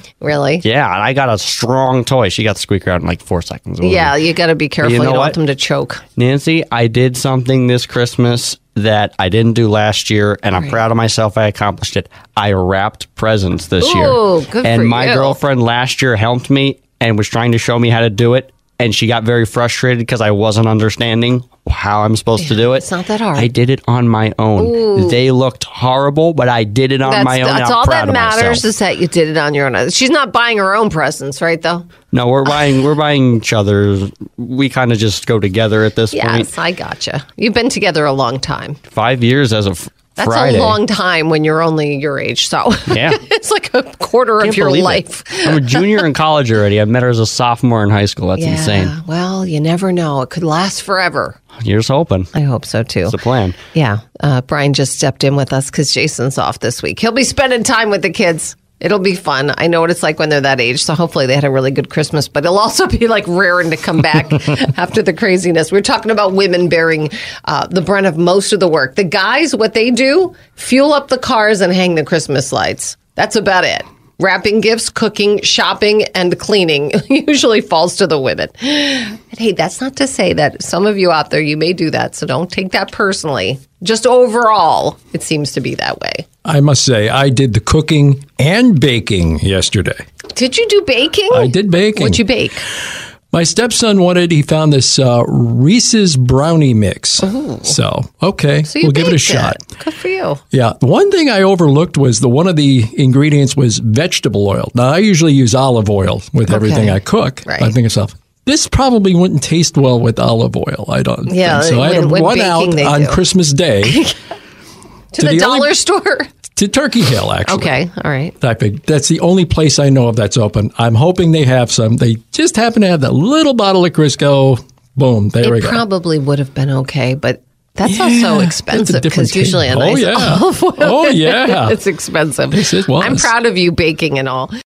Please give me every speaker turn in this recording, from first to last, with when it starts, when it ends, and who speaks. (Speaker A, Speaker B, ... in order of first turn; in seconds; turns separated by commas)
Speaker A: 0.2-0.7, Speaker B: 0.6-4.2, Speaker A: 3.8-6.0, Speaker B: 4.8-5.4, Speaker B: 6.2-28.7, Speaker A: 10.6-10.8, Speaker A: 13.8-15.4, Speaker A: 22.4-23.5, Speaker A: 24.6-25.2, Speaker A: 27.1-31.9, Speaker B: 32.1-36.5, Speaker A: 36.1-38.8, Speaker B: 38.9-40.8, Speaker A: 40.2-46.1, Speaker B: 42.9-43.2, Speaker B: 44.4-48.9, Speaker A: 48.4-51.4, Speaker B: 51.6-52.3, Speaker A: 52.3-86.2, Speaker B: 53.1-53.6, Speaker C: 86.5-90.0, Speaker A: 90.3-92.7, Speaker C: 91.3-92.2, Speaker C: 93.3-99.6, Speaker A: 97.2-97.8, Speaker A: 98.7-100.4, Speaker C: 100.5-114.0, Speaker A: 106.5-107.7, Speaker A: 111.3-113.2, Speaker A: 113.8-114.1, Speaker A: 115.1-116.3, Speaker C: 115.2-115.7, Speaker C: 116.6-117.8, Speaker A: 117.5-118.3, Speaker C: 118.4-125.8, Speaker A: 125.4-134.5, Speaker C: 127.9-131.8, Speaker C: 132.5-133.3